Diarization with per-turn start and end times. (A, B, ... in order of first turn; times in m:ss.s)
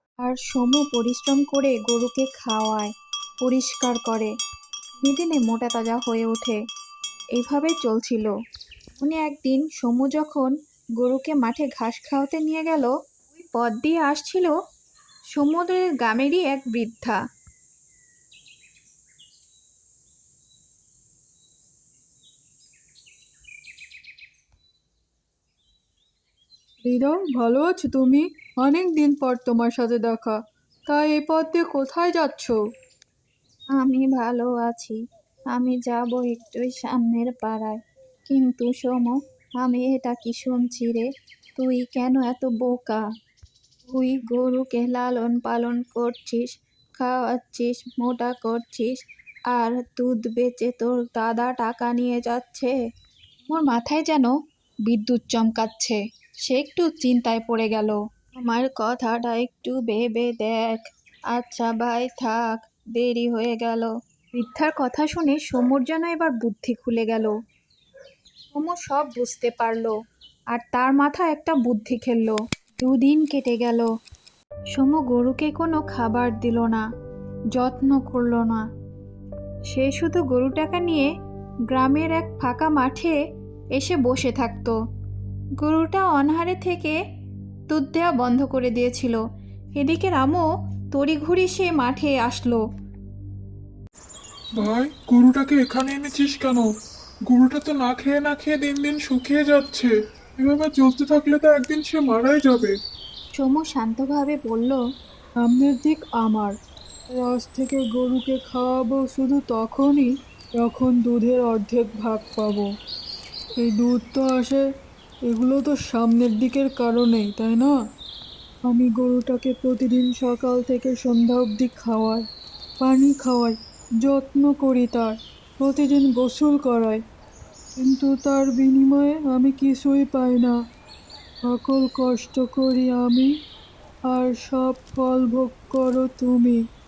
0:00.2-0:04.3 A
0:05.0-0:06.6 A
0:07.3-0:08.3 A
0:09.0-0:14.5 A
0:15.3-0:17.2 A
0:26.8-0:30.4 B
0:30.9-0:32.6 B
0:33.7-0:35.0 A
0:35.5-0:43.0 A
0:43.9-0:49.0 A
0:49.5-0:52.7 A
0:53.5-0:54.3 A
0:54.9-1:07.3 A
1:08.5-1:09.9 A
1:10.5-1:13.9 A
1:14.7-1:16.8 A
1:17.5-1:18.6 A
1:19.7-1:21.1 A
1:21.7-1:23.2 A
1:23.8-1:24.7 A
1:25.6-1:27.0 A
1:27.7-1:29.2 A
1:29.8-1:32.6 A
1:34.6-1:36.7 C
1:37.3-1:42.7 C
1:43.4-1:44.8 A
1:45.4-1:46.5 B
1:47.1-1:52.7 B
1:53.6-1:54.6 B
1:55.3-1:57.7 B
1:58.7-2:02.2 B
2:02.8-2:07.0 B
2:07.8-2:10.5 B
2:11.4-2:13.3 B
2:14.1-2:16.6 B